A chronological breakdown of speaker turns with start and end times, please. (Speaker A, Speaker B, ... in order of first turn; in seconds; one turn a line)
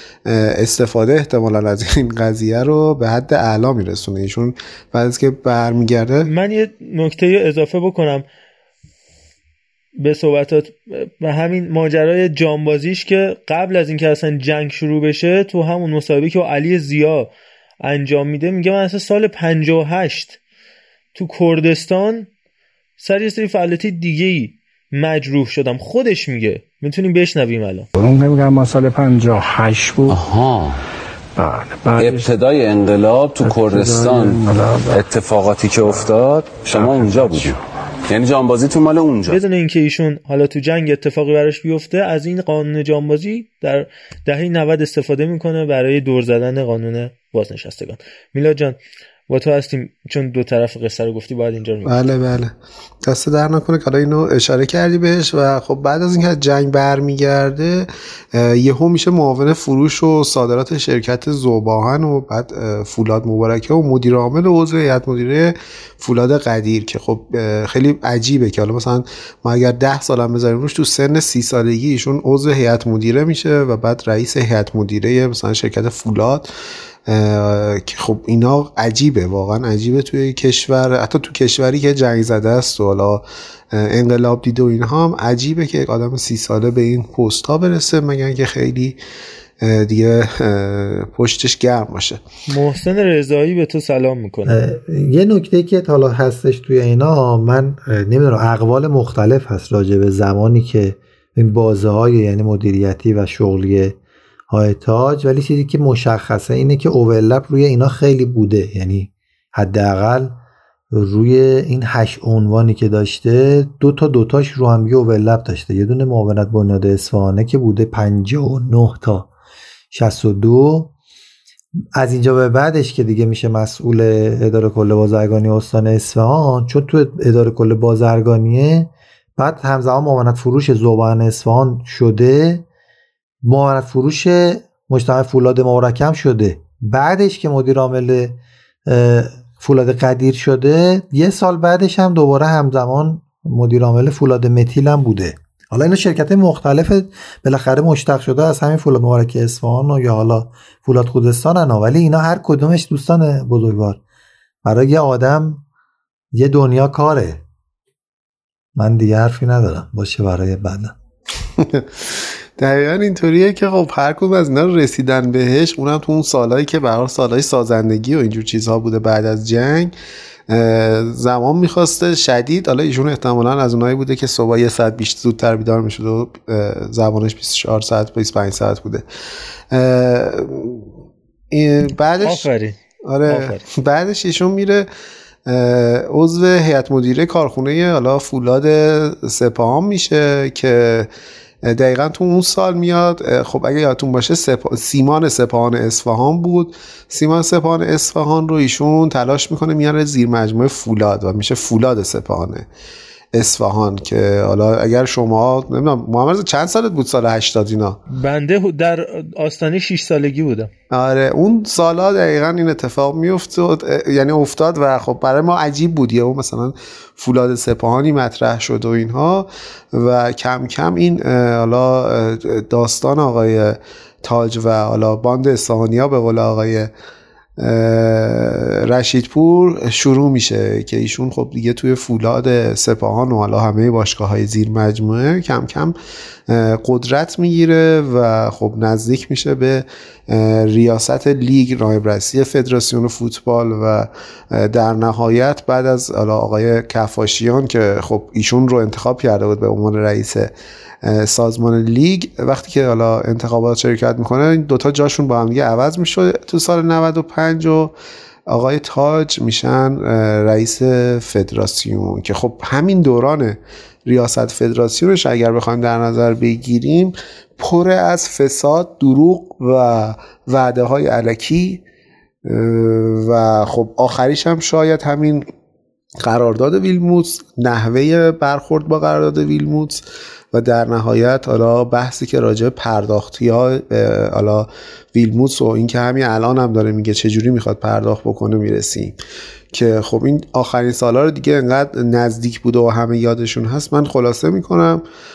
Speaker A: 0.3-6.3
Speaker B: 6.2-8.2
Speaker B: 10.0-17.3
Speaker B: 17.8-20.4
Speaker B: 21.1-22.3
Speaker B: 23.0-27.9
Speaker C: 27.9-30.2
Speaker D: 30.1-30.8
Speaker C: 31.4-32.3
Speaker D: 32.0-39.4
Speaker C: 33.4-35.0
Speaker B: 39.3-48.8
Speaker B: 49.3-52.0
Speaker A: 51.9-76.5
Speaker A: 77.1-89.0
Speaker A: 89.6-92.2
Speaker B: 92.5-94.6
Speaker E: 94.5-104.0
Speaker E: 104.5-110.4
Speaker E: 110.9-119.3
Speaker E: 119.9-120.9
Speaker E: 122.0-132.7
Speaker E: 133.4-154.0
Speaker E: 154.7-155.7
Speaker E: 156.3-157.4
Speaker E: 158.8-161.0
Speaker A: 161.6-169.9
Speaker A: 170.5-179.1
Speaker A: 179.7-180.9
Speaker A: 181.5-182.5
Speaker B: 182.2-183.6
Speaker A: 183.1-184.9
Speaker A: 185.5-191.1
Speaker A: 191.6-202.7
Speaker A: 203.3-208.0
Speaker B: 208.1-210.7
Speaker A: 210.9-226.9
Speaker A: 227.6-235.9
Speaker A: 236.5-250.5
Speaker A: 251.1-257.9
Speaker A: 258.5-271.8
Speaker A: 272.5-275.5
Speaker A: 276.2-289.1
Speaker A: 289.7-295.0